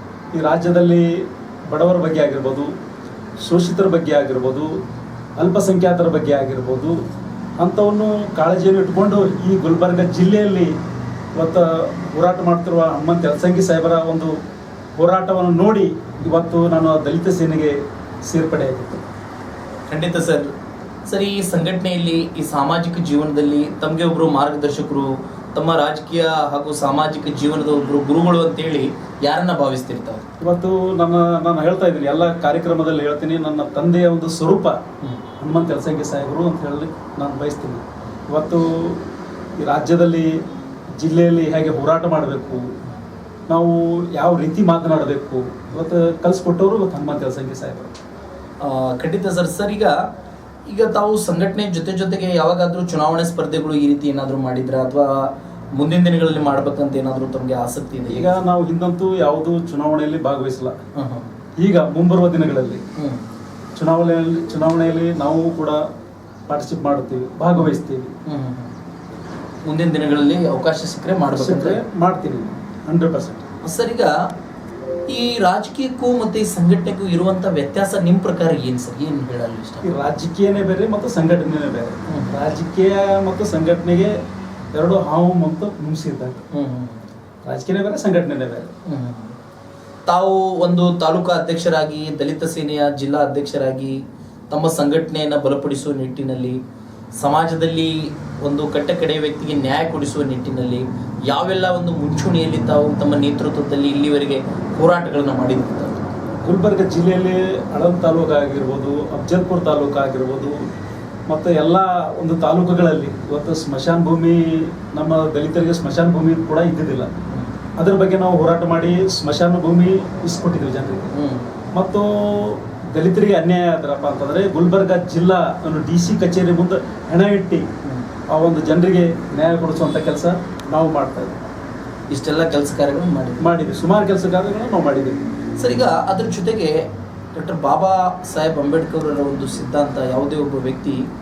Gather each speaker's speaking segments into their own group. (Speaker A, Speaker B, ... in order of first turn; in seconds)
Speaker A: 0.3-2.7, 3.4-4.8, 5.4-7.0, 7.6-10.7, 11.3-14.4, 15.0-19.0, 30.4-34.8, 35.4-39.0, 39.6-40.4, 41.0-42.7, 43.5-47.9, 58.1-60.7, 61.6-62.8, 63.8-65.8, 66.5-68.1, 71.3-73.5, 79.8-84.2, 84.7-86.5, 87.4-88.7, 106.4-110.6, 111.3-117.1, 117.8-121.1, 121.7-127.7, 128.3-131.3, 133.4-135.2
Speaker B: 19.9-20.5, 21.1-30.2, 48.6-49.9, 50.7-58.4, 61.0-61.3, 63.0-63.2, 68.2-68.7, 69.6-71.8, 73.6-74.1, 75.1-80.0, 82.1-82.4, 86.5-87.0, 88.8-89.3, 90.1-94.0, 94.5-96.6, 97.2-106.0, 121.1-121.5, 132.1-133.5, 135.6-141.0